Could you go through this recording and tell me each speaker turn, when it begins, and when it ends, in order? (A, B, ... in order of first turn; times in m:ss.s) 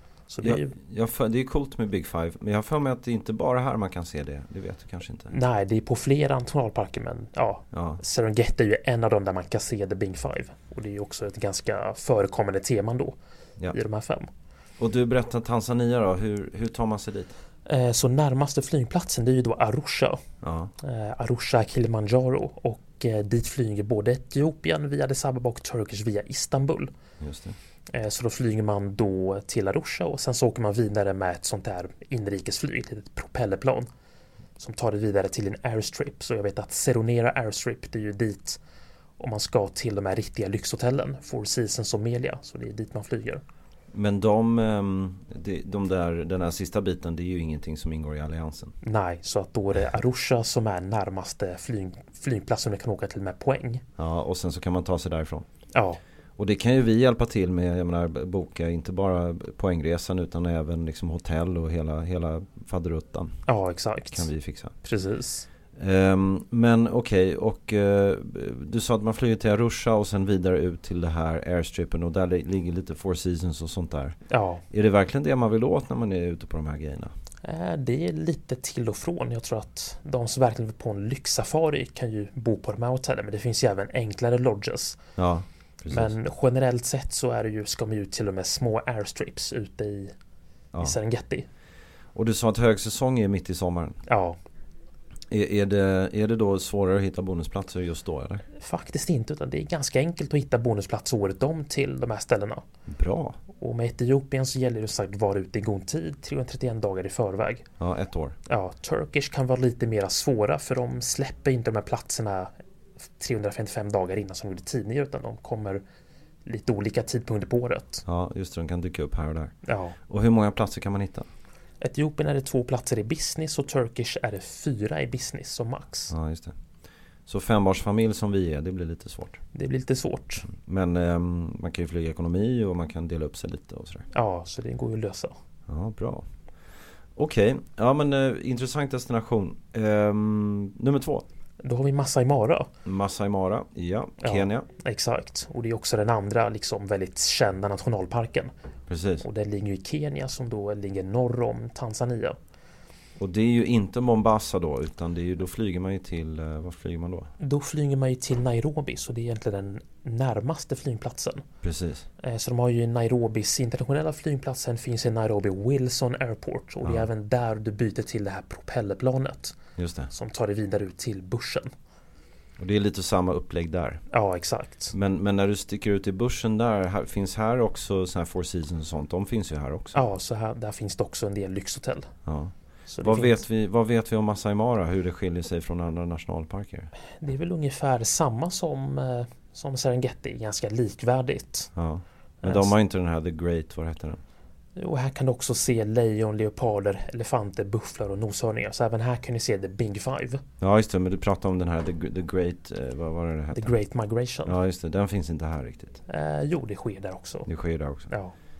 0:00.3-0:00.8 A
0:00.4-0:05.3 B
0:05.3-0:13.2 A
0:07.7-0:08.0 B
0:13.7-0:14.3 A
0:14.8-0:17.4 B
0:17.7-0:20.2 A
0:20.4-0:20.7 B
0:20.8-0:26.9 A
0:27.2-0:27.6 B
0:27.9-0:33.9 A
0:34.6-0:38.6 A
0:39.2-0:43.4 A
0:43.9-0:48.8 B
0:48.8-0:53.8 A
0:54.0-0:55.5 B
0:55.7-0:56.0 A
0:56.4-1:03.4 B
1:03.5-1:04.3 A
1:04.1-1:04.8 B
1:04.8-1:05.5 A
1:05.8-1:14.2 B
1:14.3-1:14.6 A
1:14.7-1:17.1 B
1:17.4-1:25.0 A
1:25.2-1:26.2 B
1:25.9-1:30.2 A
1:30.8-1:31.5 A
1:32.2-1:34.0 B
1:34.1-1:34.4 A
1:35.3-1:38.4 B
1:38.6-1:42.6 A
1:42.9-1:43.4 B
1:43.5-1:47.7 A
1:47.8-1:48.4 B
1:48.5-1:52.5 A
1:53.2-1:55.8 A
1:56.4-1:58.0 A
1:58.1-1:59.6 B
1:59.6-2:00.0 A
2:00.1-2:01.3 B
2:01.8-2:06.1 A
2:06.1-2:06.6 B
2:07.3-2:09.4 B
2:09.5-2:10.5 A
2:10.5-2:14.1 B
2:14.1-2:15.4 A
2:15.7-2:16.3 B
2:17.2-2:21.3 B
2:21.6-2:22.7 A
2:22.8-2:24.7 B
2:24.2-2:28.5 A
2:28.9-2:29.3 B
2:29.2-2:32.4 A
2:33.2-2:37.3 B
2:37.4-2:41.4 A
2:41.6-2:42.1 B
2:42.2-2:49.6 A
2:46.8-2:47.1 B
2:49.8-2:50.1 B
2:50.1-2:51.7 A
2:52.6-2:54.0 B
2:54.1-2:55.0 A
2:54.9-3:00.0 B
2:59.9-3:02.1 A
3:02.3-3:06.9 B
3:02.9-3:03.4 A
3:07.2-3:11.7 A
3:11.8-3:14.2 B
3:12.4-3:12.7 A
3:14.8-3:20.4 A
3:20.6-3:23.8 B
3:23.6-3:24.6 A
3:24.4-3:26.0 B
3:26.1-3:27.5 A
3:27.5-3:28.1 B
3:28.1-3:28.4 A